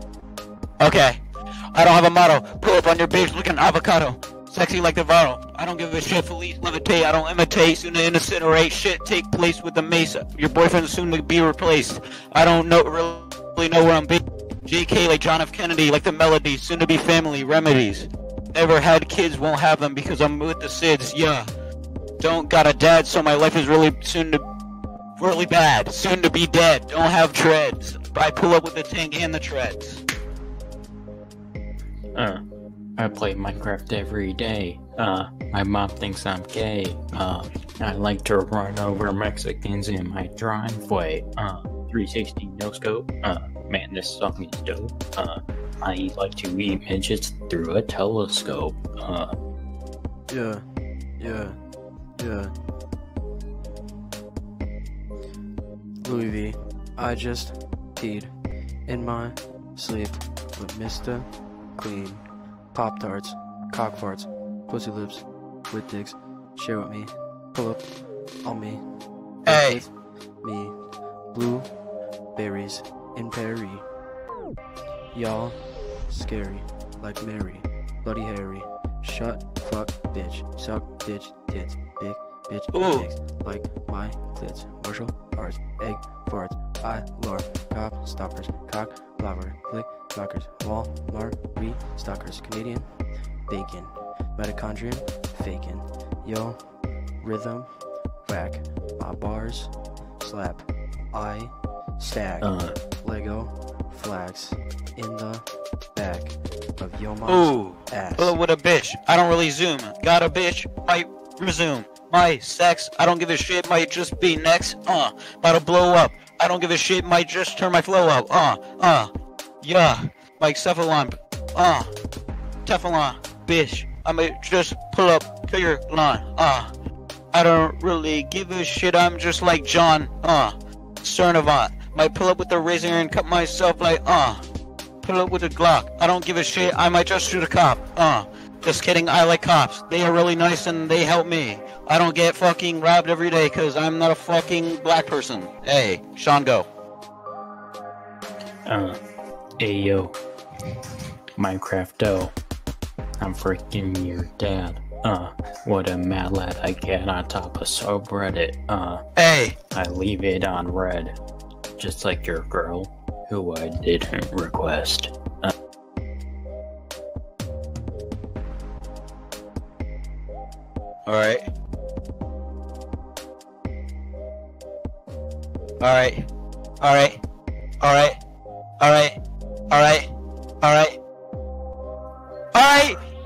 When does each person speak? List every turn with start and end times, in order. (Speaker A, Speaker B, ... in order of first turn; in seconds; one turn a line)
Speaker A: 0.8-1.2
Speaker A: 1.7-21.5
Speaker A: 22.2-24.4
Speaker A: 25.2-30.0
Speaker B: 32.1-32.4
Speaker B: 33.0-49.4
Speaker C: 50.3-50.6
Speaker C: 51.2-51.6
Speaker C: 52.2-52.5
Speaker C: 56.0-58.3
Speaker C: 58.9-67.8
Speaker C: 68.4-68.8
Speaker A: 69.4-69.9
Speaker C: 69.5-69.9
Speaker C: 70.4-70.7
Speaker C: 71.3-71.7
Speaker C: 72.4-73.8
Speaker C: 75.1-75.6
Speaker C: 76.1-92.9
Speaker A: 82.7-83.1
Speaker C: 93.5-96.6
Speaker C: 97.2-97.7
Speaker C: 98.2-99.7
Speaker C: 100.2-102.5
Speaker B: 102.4-102.8
Speaker C: 103.0-108.3
Speaker A: 107.3-119.1
Speaker A: 119.6-121.9
Speaker A: 122.7-126.7
Speaker A: 127.3-134.4
Speaker A: 135.0-146.7
Speaker B: 148.7-149.0
Speaker B: 149.6-150.2
Speaker B: 151.4-152.3
Speaker B: 153.2-159.0
Speaker A: 159.2-159.6
Speaker B: 159.7-161.2
Speaker B: 161.8-165.5
Speaker A: 171.1-171.4
Speaker A: 175.8-176.2
Speaker A: 176.8-177.2
Speaker A: 177.8-178.2
Speaker A: 178.8-179.2
Speaker A: 179.7-180.1
Speaker A: 180.6-181.0
Speaker A: 182.5-183.0